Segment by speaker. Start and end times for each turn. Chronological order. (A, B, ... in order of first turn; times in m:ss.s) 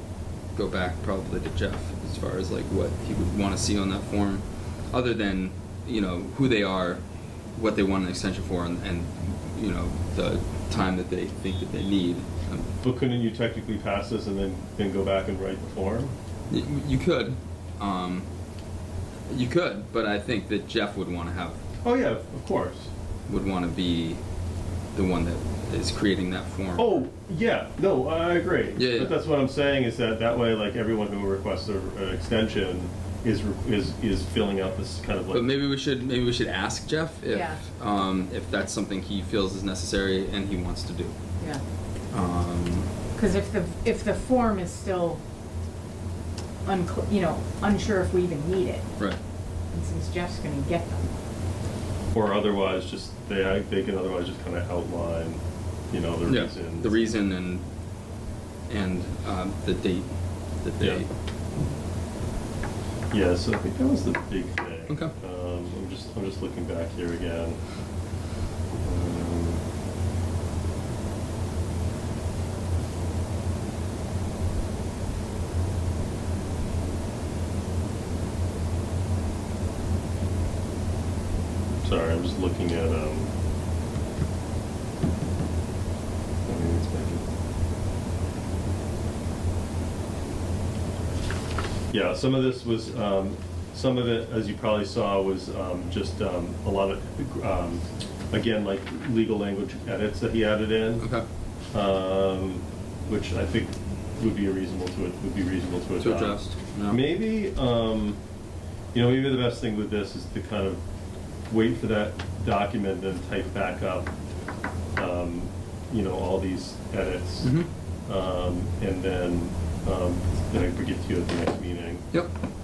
0:00.5-0:07.0 A
0:07.5-0:12.7 A
0:12.8-0:16.1 B
0:16.5-0:18.3 A
0:19.3-0:21.6 A
0:21.8-0:22.9 B
0:23.3-0:24.2 A
0:24.9-0:27.0 A
0:26.8-0:35.5 B
0:28.8-0:29.2 A
0:35.3-0:41.1 A
0:37.2-0:37.6 C
0:42.1-0:42.9 A
0:43.1-0:45.2 C
0:46.6-0:48.9 C
0:49.7-0:51.1 C
0:52.1-0:56.9 B
0:56.2-0:57.6 A
0:58.7-1:00.1 A
1:00.6-1:01.1 A
1:03.1-1:07.6 B
1:04.9-1:05.1 A
1:08.8-1:09.6 B
1:21.8-1:23.3 B
1:26.4-1:27.2 B
1:31.9-1:41.0 B
1:41.0-1:41.2 A
1:41.7-1:48.2 B
1:46.0-1:47.0 A
1:48.9-1:50.8 B
1:51.5-1:54.1 B
1:55.0-2:02.0 B
1:57.4-1:57.7 A